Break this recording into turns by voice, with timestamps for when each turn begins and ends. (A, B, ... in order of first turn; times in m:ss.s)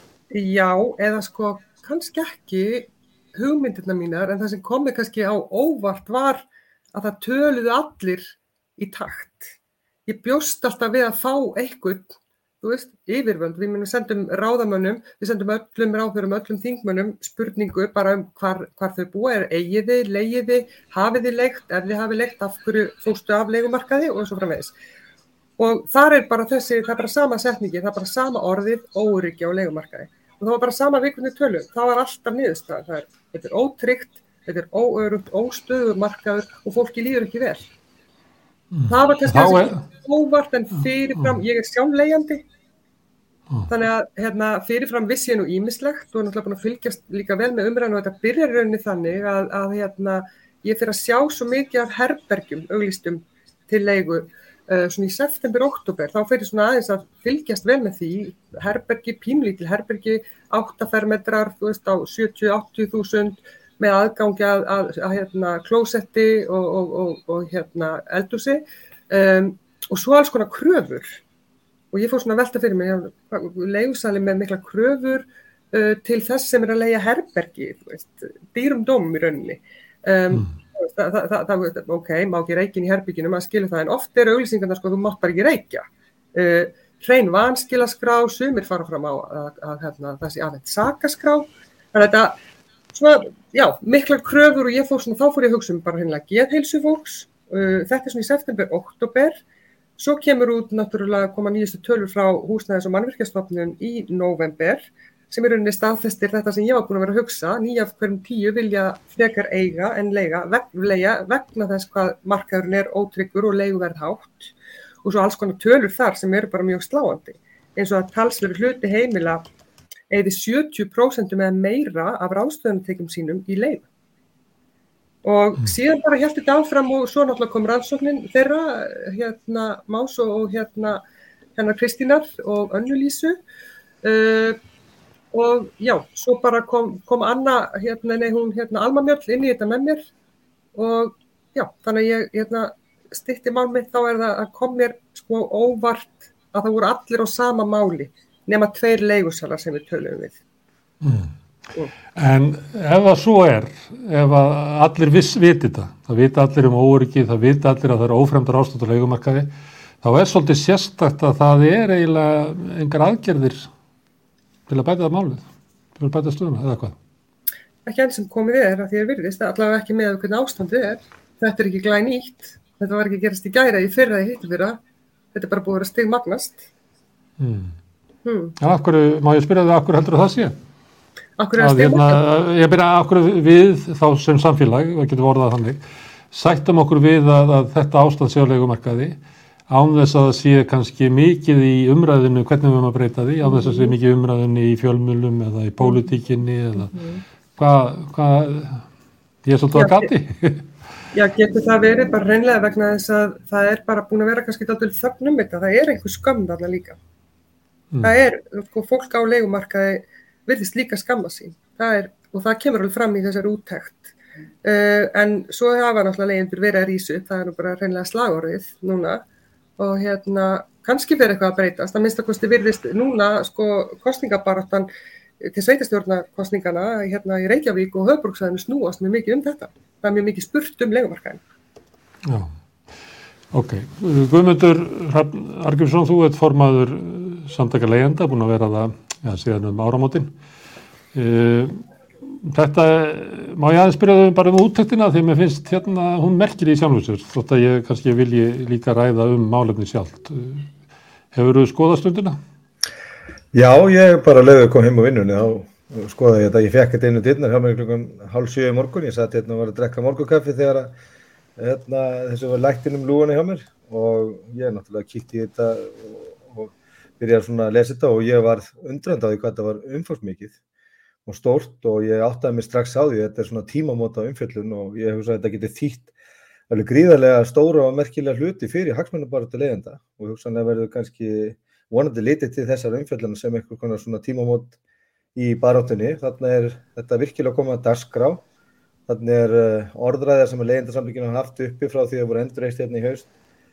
0:00.3-0:09.5 A
0:10.1-0:24.7 A
0:25.6-0:37.7 A
0:38.7-0:39.8 B
0:38.9-0:42.4 A
0:40.8-0:41.4 B
0:43.7-1:11.2 A
1:11.9-1:32.4 A
1:32.9-1:39.4 A
1:40.0-1:54.5 A
1:55.0-1:59.4 A
2:00.1-2:03.9 A
2:05.2-2:11.0 A
2:11.6-2:13.4 A
2:14.0-2:14.6 A
2:15.3-2:20.0 A
2:20.8-2:30.4 A
2:31.0-2:31.3 B
2:32.1-2:39.5 B
2:40.0-2:43.7 B
2:44.7-2:45.4 B
2:46.0-2:47.0 B
2:47.9-2:54.8 A
2:55.3-2:56.7 A
2:57.4-2:57.7 B
2:58.2-2:58.6 A
2:58.6-3:00.6 B
3:01.4-3:02.2 A
3:01.6-3:09.2 B
3:09.7-3:16.9 B
3:13.4-3:13.9 A
3:16.9-3:17.2 A
3:17.6-3:18.9 B
3:19.4-3:20.7 B
3:19.7-3:20.1 A
3:21.1-3:27.0 A
3:27.9-3:28.2 B
3:28.0-3:34.1 A
3:34.6-3:39.2 A
3:39.8-3:44.9 A
3:45.4-3:51.4 A
3:52.2-3:52.5 B
3:53.5-4:00.3 B
4:01.1-4:01.8 B
4:02.3-4:10.7 B
4:11.3-4:12.4 B
4:13.5-4:20.9 C
4:21.6-4:30.6 C
4:31.2-4:36.1 C
4:36.7-4:44.8 C
4:45.4-4:48.4 C
4:49.1-4:53.3 C